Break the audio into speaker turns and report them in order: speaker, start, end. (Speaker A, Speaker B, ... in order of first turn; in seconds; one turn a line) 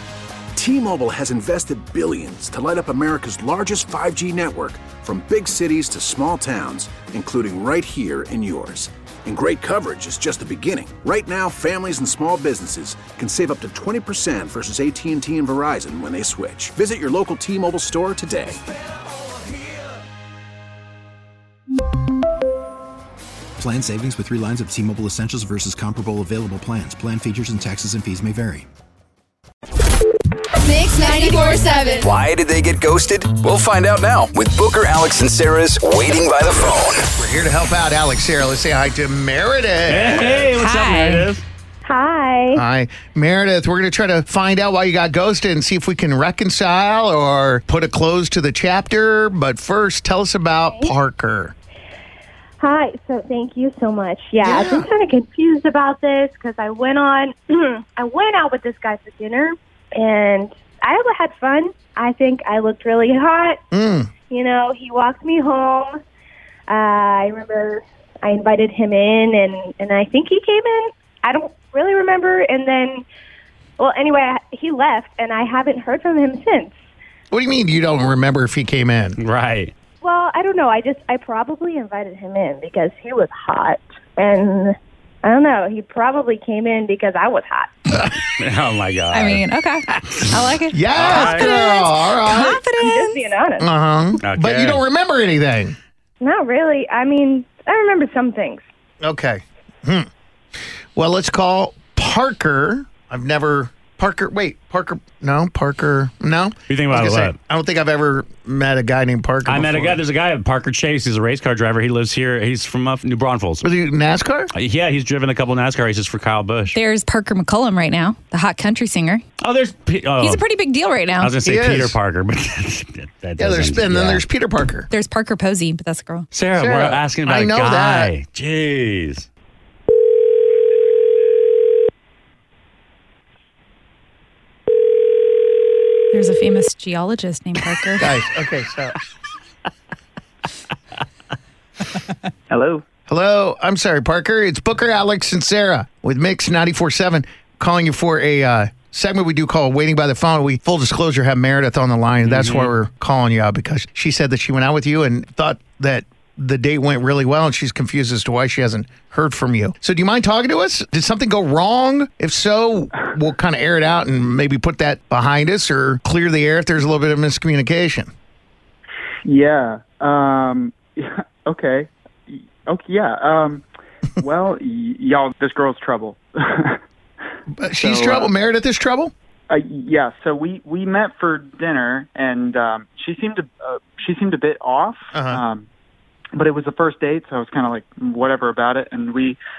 Speaker A: 0.6-18.6
Speaker B: 23.6-28.6
Speaker C: 31.0-32.0
Speaker D: 32.0-36.9
Speaker E: 37.1-40.5
Speaker F: 39.9-41.4
Speaker C: 40.4-41.3
Speaker G: 41.9-42.6
Speaker E: 42.5-51.5
Speaker G: 52.6-63.6
Speaker E: 54.4-54.9
Speaker E: 63.7-64.1
Speaker G: 64.3-66.0
Speaker G: 66.7-73.0
Speaker G: 73.8-76.7
Speaker E: 77.3-79.2
Speaker F: 79.2-79.7
Speaker G: 80.0-87.7
Speaker F: 88.2-89.5
Speaker C: 89.1-93.2
Speaker E: 90.7-92.7
Speaker F: 90.9-91.6
Speaker G: 92.7-93.7
Speaker E: 93.6-95.8
Speaker F: 94.2-94.8
Speaker G: 96.2-98.6
Speaker E: 99.0-100.1
Speaker E: 101.0-110.0
Speaker F: 106.7-107.4
Speaker F: 109.5-113.7
Speaker E: 113.6-114.5
Speaker F: 114.5-116.8
Speaker C: 116.7-119.2
Speaker F: 119.4-120.5
Speaker C: 120.2-121.3
Speaker F: 121.2-124.2
Speaker E: 121.4-122.0
Speaker E: 123.4-124.9
Speaker C: 124.9-126.3
Speaker F: 126.3-129.3
Speaker E: 126.5-128.1
Speaker C: 136.1-138.2
Speaker E: 138.0-138.9
Speaker H: 142.5-142.8
Speaker E: 143.1-168.1
Speaker F: 152.2-152.7
Speaker H: 169.2-173.6
Speaker H: 174.2-176.8
Speaker E: 177.6-179.1
Speaker H: 177.7-178.3
Speaker H: 179.5-185.7
Speaker E: 185.1-185.4
Speaker H: 186.3-189.4